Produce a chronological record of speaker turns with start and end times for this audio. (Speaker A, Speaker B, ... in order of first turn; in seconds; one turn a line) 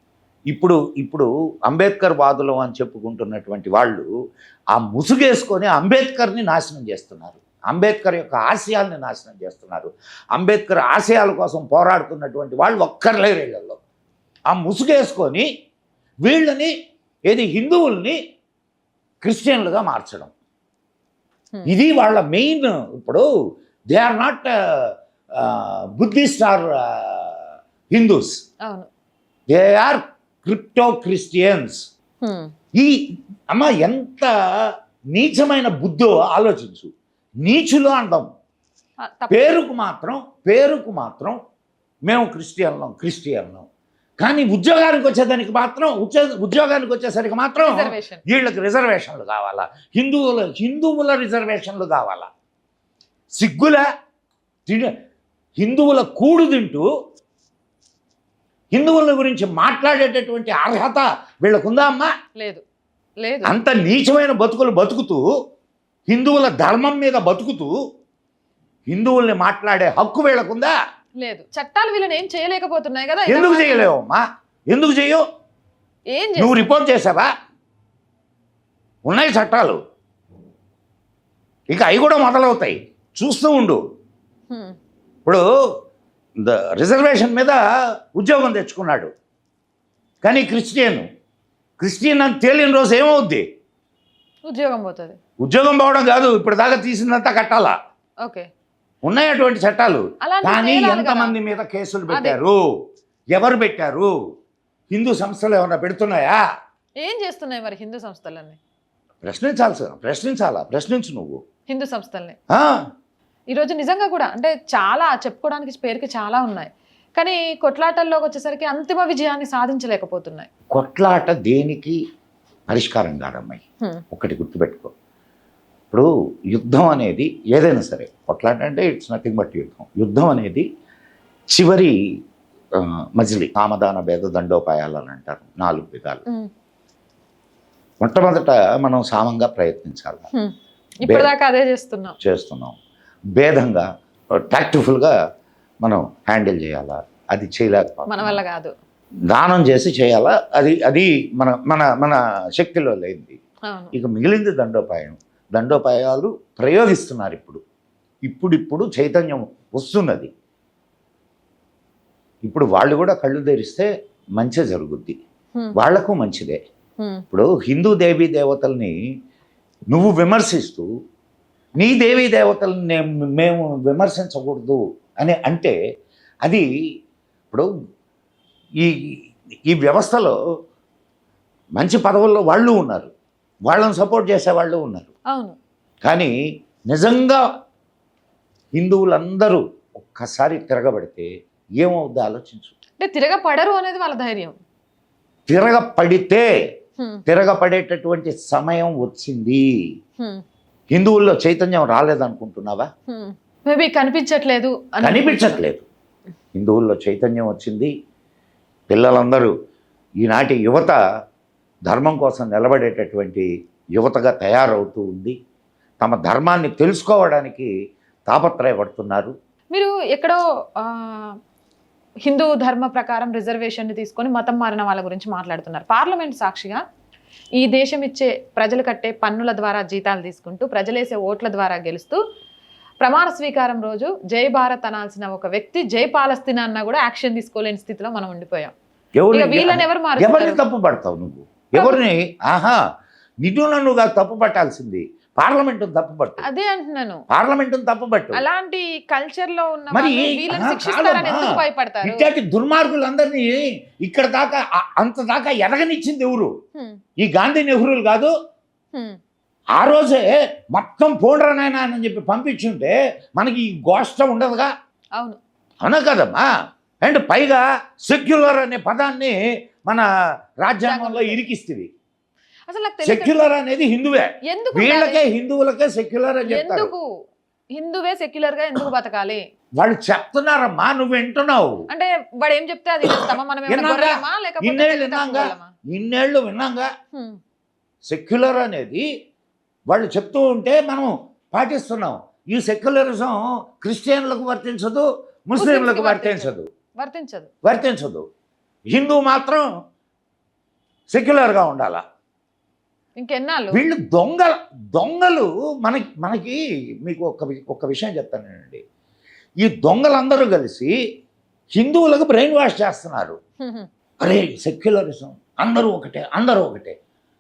Speaker A: 0.5-4.1
Speaker A: 4.7-13.8
Speaker A: 14.5-15.5
Speaker A: 16.2-16.7
Speaker A: 17.3-18.2
Speaker A: 19.2-20.3
Speaker A: 21.7-23.3
Speaker A: 23.9-27.4
Speaker A: 27.9-28.4
Speaker A: 29.5-31.8
Speaker B: 32.2-32.5
Speaker A: 33.5-34.3
Speaker A: 35.1-36.9
Speaker A: 37.4-38.3
Speaker B: 39.0-39.6
Speaker A: 39.3-41.4
Speaker A: 42.1-43.7
Speaker A: 44.2-52.3
Speaker B: 47.6-48.2
Speaker A: 53.4-53.8
Speaker A: 54.7-54.9
Speaker A: 55.6-56.9
Speaker A: 58.7-62.1
Speaker B: 62.4-62.6
Speaker B: 63.2-63.5
Speaker A: 63.4-65.2
Speaker A: 66.1-67.7
Speaker A: 68.9-70.8
Speaker B: 71.2-73.9
Speaker A: 73.3-75.2
Speaker B: 76.1-76.6
Speaker A: 76.4-77.3
Speaker A: 79.1-79.8
Speaker A: 81.7-83.8
Speaker B: 84.5-84.8
Speaker A: 86.4-87.6
Speaker A: 88.2-89.1
Speaker A: 90.2-91.1
Speaker A: 91.8-93.5
Speaker B: 94.5-95.2
Speaker A: 95.4-97.8
Speaker B: 98.2-98.5
Speaker A: 99.0-102.7
Speaker B: 100.2-101.3
Speaker B: 102.1-102.4
Speaker A: 103.3-104.1
Speaker A: 104.9-106.4
Speaker B: 107.0-108.6
Speaker A: 109.2-111.4
Speaker B: 111.7-112.4
Speaker A: 112.5-112.8
Speaker B: 113.5-120.5
Speaker A: 120.7-122.0
Speaker A: 122.7-124.9
Speaker A: 125.9-130.7
Speaker A: 131.5-132.0
Speaker A: 132.8-136.2
Speaker A: 138.0-140.3
Speaker B: 140.3-142.2
Speaker A: 141.1-141.3
Speaker A: 142.2-142.8
Speaker A: 143.4-143.9
Speaker A: 144.4-145.1
Speaker A: 145.8-148.4
Speaker B: 148.1-148.7
Speaker A: 149.3-153.4
Speaker B: 153.7-153.9
Speaker A: 153.9-157.6
Speaker A: 158.3-160.3
Speaker A: 162.4-165.2
Speaker A: 165.8-166.6
Speaker A: 167.3-169.0
Speaker A: 169.9-170.9
Speaker A: 171.8-175.8
Speaker A: 178.8-179.1
Speaker A: 179.7-180.3
Speaker A: 181.8-183.1
Speaker A: 183.7-185.1
Speaker B: 185.3-185.6
Speaker A: 186.0-186.3
Speaker A: 186.9-187.4
Speaker A: 188.8-191.3
Speaker A: 191.8-192.7
Speaker B: 193.0-194.6
Speaker A: 195.5-196.5
Speaker B: 197.0-197.2
Speaker A: 197.3-199.7
Speaker A: 200.9-202.9
Speaker B: 203.1-205.6
Speaker A: 205.0-205.9
Speaker A: 206.6-207.9
Speaker A: 208.9-209.5
Speaker A: 210.2-211.0
Speaker A: 211.9-215.4
Speaker A: 216.0-217.7
Speaker A: 218.3-219.3
Speaker B: 219.7-221.4
Speaker B: 222.2-226.8
Speaker B: 227.6-232.2
Speaker B: 233.0-238.7
Speaker A: 239.2-242.8
Speaker B: 239.3-240.6
Speaker B: 241.8-242.0
Speaker A: 243.4-246.4
Speaker B: 246.4-247.2
Speaker A: 247.3-248.4
Speaker B: 248.3-252.3
Speaker A: 249.9-251.5
Speaker A: 252.0-256.5
Speaker A: 257.2-258.3
Speaker B: 258.9-259.2
Speaker A: 259.8-264.7
Speaker A: 265.8-266.5
Speaker A: 267.0-269.4
Speaker A: 270.6-271.9
Speaker B: 270.8-271.4
Speaker B: 272.7-273.4
Speaker A: 273.0-276.9
Speaker B: 274.4-275.2
Speaker B: 276.5-277.0
Speaker B: 277.8-279.4
Speaker A: 279.8-281.8
Speaker B: 281.9-285.7
Speaker A: 283.2-286.9
Speaker B: 287.1-287.4
Speaker A: 288.1-289.1
Speaker A: 289.9-296.7
Speaker B: 295.6-297.5
Speaker A: 297.6-298.2
Speaker A: 298.9-299.7
Speaker A: 301.1-302.0
Speaker B: 303.2-303.8
Speaker A: 303.7-308.8
Speaker A: 309.6-310.9
Speaker A: 311.8-313.4
Speaker B: 313.6-313.9
Speaker A: 314.2-316.9